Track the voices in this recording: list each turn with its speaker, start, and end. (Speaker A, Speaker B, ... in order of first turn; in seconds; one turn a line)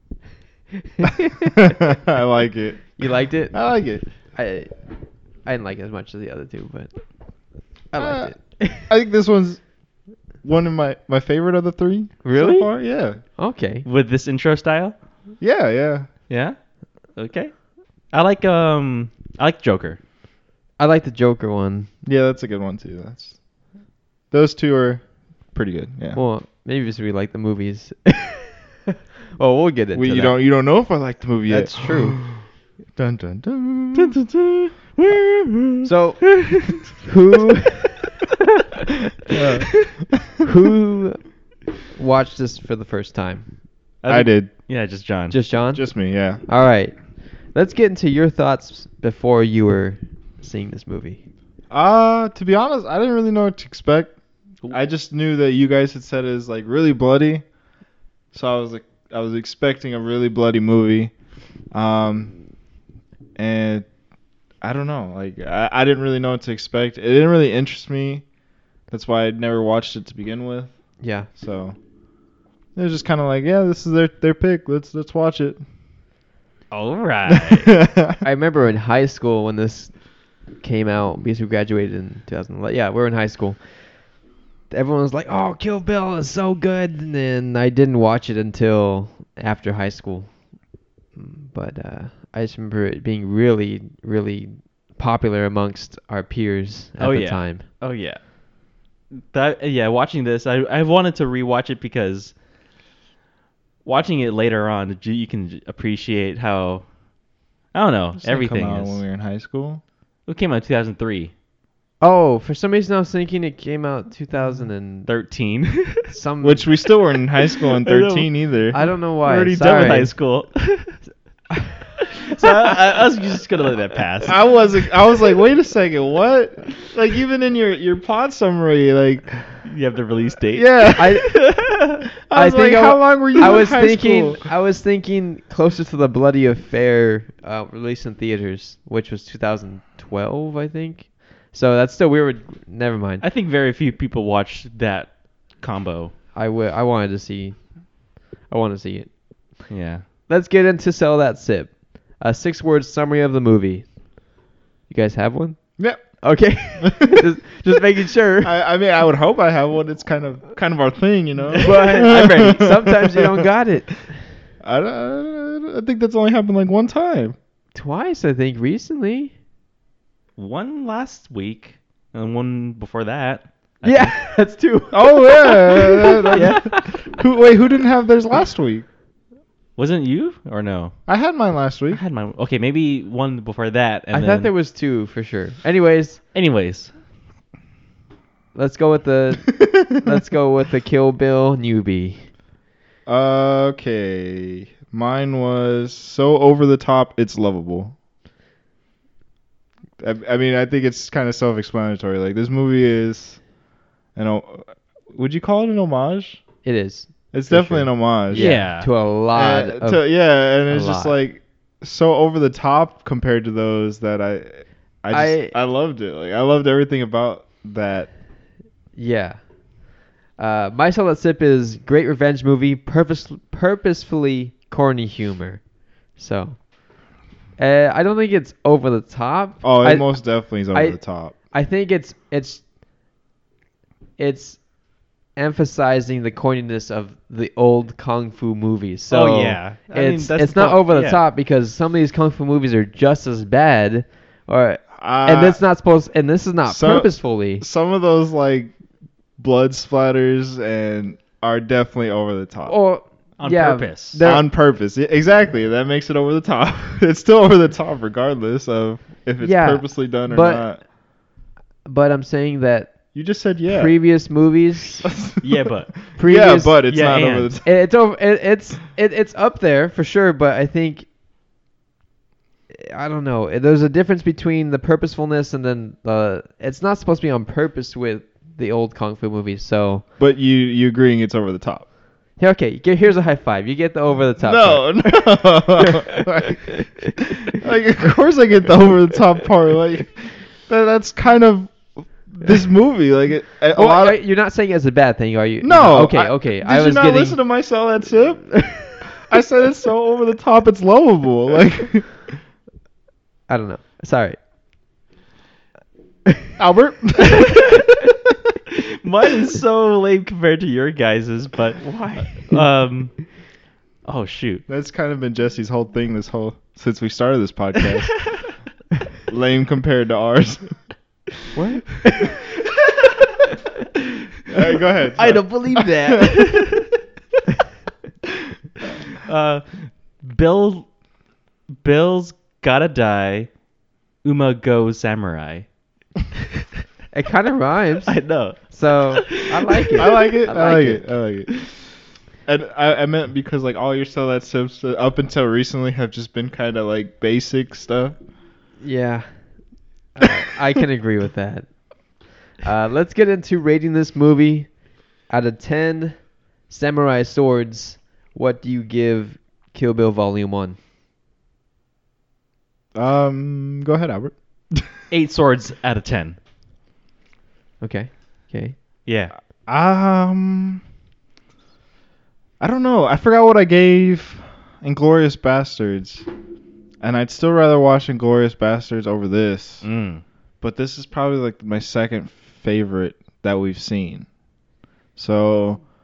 Speaker A: 1.0-1.6
Speaker B: 1.6-4.0
Speaker A: 3.0-4.8
Speaker A: 5.4-6.9
Speaker A: 7.9-8.9
Speaker B: 8.0-9.8
Speaker B: 10.4-13.2
Speaker A: 12.2-13.9
Speaker C: 13.8-15.0
Speaker B: 15.4-16.1
Speaker C: 16.3-20.0
Speaker A: 20.8-21.9
Speaker B: 22.0-23.4
Speaker B: 24.3-26.2
Speaker A: 26.1-30.4
Speaker B: 29.9-32.4
Speaker A: 31.5-32.2
Speaker B: 33.0-34.2
Speaker C: 33.9-36.8
Speaker A: 35.8-38.2
Speaker B: 39.3-40.2
Speaker A: 40.4-43.5
Speaker C: 44.0-45.4
Speaker B: 44.1-44.5
Speaker A: 45.3-51.2
Speaker B: 45.7-46.4
Speaker B: 51.7-54.1
Speaker B: 54.7-57.5
Speaker B: 58.3-61.1
Speaker B: 61.7-62.4
Speaker B: 63.4-63.9
Speaker B: 64.6-68.3
Speaker B: 68.9-71.8
Speaker A: 71.0-71.3
Speaker B: 72.8-75.6
Speaker C: 76.7-77.7
Speaker B: 77.3-78.2
Speaker A: 78.2-84.1
Speaker A: 84.7-90.5
Speaker A: 91.2-97.7
Speaker C: 97.0-98.4
Speaker C: 99.1-102.3
Speaker C: 103.8-106.9
Speaker C: 107.7-109.0
Speaker B: 108.2-109.8
Speaker C: 110.3-111.3
Speaker A: 112.0-115.1
Speaker C: 115.1-116.1
Speaker A: 116.0-116.7
Speaker B: 116.4-118.8
Speaker C: 117.8-118.3
Speaker A: 118.7-120.2
Speaker C: 119.2-121.0
Speaker A: 121.5-121.8
Speaker C: 122.3-124.4
Speaker B: 124.2-129.6
Speaker C: 129.6-132.0
Speaker B: 130.5-131.3
Speaker A: 131.0-131.6
Speaker B: 132.3-134.5
Speaker A: 132.3-143.2
Speaker C: 143.2-146.1
Speaker A: 146.3-149.7
Speaker C: 149.7-150.1
Speaker A: 150.3-154.3
Speaker A: 154.9-158.6
Speaker B: 155.8-157.0
Speaker B: 158.4-163.5
Speaker C: 161.6-162.6
Speaker A: 161.6-164.3
Speaker B: 164.6-167.4
Speaker A: 167.7-169.3
Speaker C: 170.4-174.2
Speaker A: 173.8-177.2
Speaker B: 174.9-178.9
Speaker C: 176.3-176.7
Speaker C: 179.8-181.0
Speaker B: 181.1-182.0
Speaker C: 181.9-184.5
Speaker A: 184.1-186.2
Speaker C: 186.3-186.9
Speaker A: 188.5-192.3
Speaker B: 193.1-197.9
Speaker B: 200.0-203.5
Speaker B: 204.2-206.4
Speaker A: 206.6-211.2
Speaker B: 207.3-208.7
Speaker C: 208.3-208.9
Speaker B: 209.3-218.1
Speaker A: 215.1-215.6
Speaker A: 218.9-227.0
Speaker A: 227.6-232.7
Speaker B: 229.6-231.4
Speaker A: 234.2-247.6
Speaker C: 239.1-241.2
Speaker B: 244.9-245.6
Speaker B: 246.7-248.8
Speaker B: 249.4-252.8
Speaker A: 252.7-254.6
Speaker C: 253.4-254.2
Speaker B: 254.2-260.8
Speaker A: 259.4-260.9
Speaker A: 261.9-263.1
Speaker B: 263.1-264.0
Speaker A: 263.7-265.3
Speaker B: 265.0-267.8
Speaker C: 265.4-266.2
Speaker A: 266.2-271.1
Speaker C: 266.9-267.5
Speaker A: 272.7-280.1
Speaker B: 280.2-281.9
Speaker A: 282.4-287.3
Speaker B: 284.4-294.2
Speaker A: 293.8-297.4
Speaker B: 295.6-302.3
Speaker A: 298.5-299.1
Speaker A: 303.5-304.4
Speaker B: 306.6-307.8
Speaker C: 309.0-313.5
Speaker A: 311.9-312.6
Speaker C: 314.1-314.6
Speaker B: 314.7-318.6
Speaker B: 319.3-320.9
Speaker A: 321.5-322.4
Speaker B: 324.5-326.3
Speaker A: 325.2-326.7
Speaker C: 325.2-325.4
Speaker C: 326.1-326.6
Speaker C: 329.1-331.0
Speaker C: 331.8-333.5
Speaker C: 334.2-335.7
Speaker A: 337.1-341.1
Speaker C: 338.1-340.0
Speaker B: 340.0-341.7
Speaker B: 342.5-348.2
Speaker A: 348.8-349.6
Speaker A: 350.1-360.8
Speaker B: 362.9-364.9
Speaker C: 365.1-366.4
Speaker A: 367.8-368.8
Speaker C: 369.1-369.3
Speaker B: 369.7-370.8
Speaker B: 372.6-376.3
Speaker B: 377.0-379.9
Speaker C: 379.8-380.2
Speaker B: 380.6-384.3
Speaker B: 385.2-385.8